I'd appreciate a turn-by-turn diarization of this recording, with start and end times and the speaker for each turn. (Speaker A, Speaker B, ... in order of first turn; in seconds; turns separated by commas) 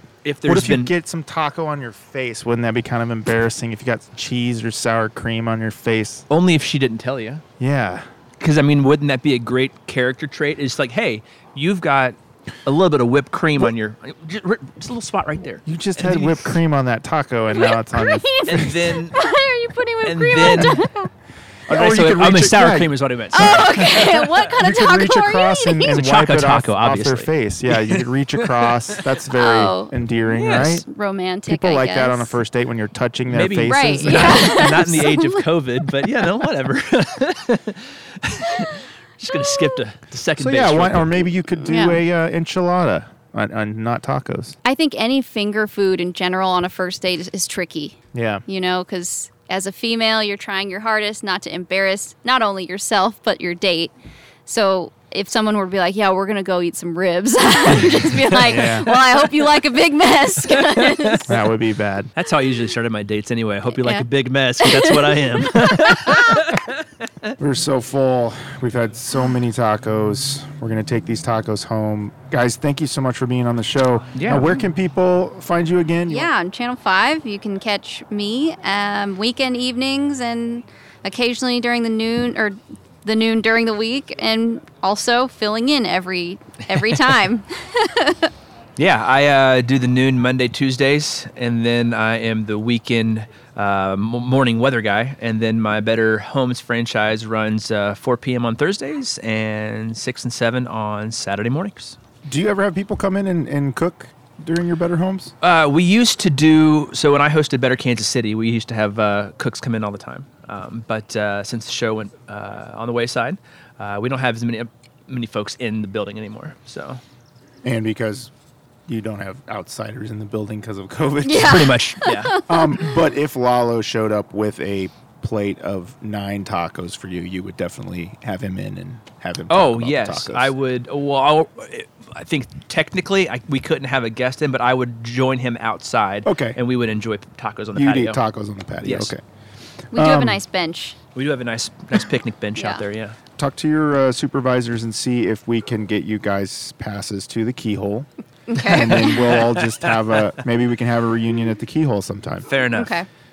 Speaker A: 0.2-0.9, Speaker B: 0.5-6.2, Speaker A: 6.3-7.4, Speaker B: 7.6-8.0, Speaker A: 8.4-16.6, Speaker B: 15.6-18.7, Speaker C: 17.5-21.1, Speaker A: 18.4-19.2, Speaker A: 20.0-20.8, Speaker B: 21.7-23.6, Speaker A: 21.7-24.5, Speaker C: 23.3-25.9, Speaker B: 24.6-30.8, Speaker A: 25.9-29.0, Speaker C: 29.3-30.0, Speaker A: 30.3-30.8, Speaker C: 30.5-32.4, Speaker B: 31.5-34.4, Speaker A: 33.3-41.3, Speaker C: 33.6-35.4, Speaker B: 40.4-44.5, Speaker C: 41.6-42.0, Speaker C: 44.6-53.9, Speaker B: 48.1-48.4, Speaker C: 54.5-61.3, Speaker A: 57.8-58.1, Speaker B: 58.5-58.9, Speaker A: 58.9-59.5, Speaker A: 60.4-61.3, Speaker B: 61.3-62.1, Speaker A: 62.1-67.3, Speaker C: 63.7-64.0, Speaker C: 64.6-66.3, Speaker B: 67.4-76.3, Speaker A: 74.1-74.6, Speaker C: 76.1-88.3, Speaker A: 88.8-102.0, Speaker B: 102.2-105.3, Speaker A: 105.4-117.0, Speaker B: 117.6-118.3, Speaker B: 118.9-121.7, Speaker C: 121.2-122.8, Speaker A: 121.3-122.4, Speaker B: 122.5-130.5, Speaker A: 129.5-138.2, Speaker B: 136.2-136.6, Speaker B: 137.7-139.2, Speaker A: 138.8-139.1, Speaker B: 139.9-140.4, Speaker C: 139.9-140.9, Speaker A: 141.1-143.2, Speaker C: 142.6-142.8, Speaker B: 143.4-148.1, Speaker C: 148.5-149.4, Speaker A: 148.6-150.3, Speaker B: 148.6-152.5, Speaker A: 152.5-152.9, Speaker C: 152.7-153.1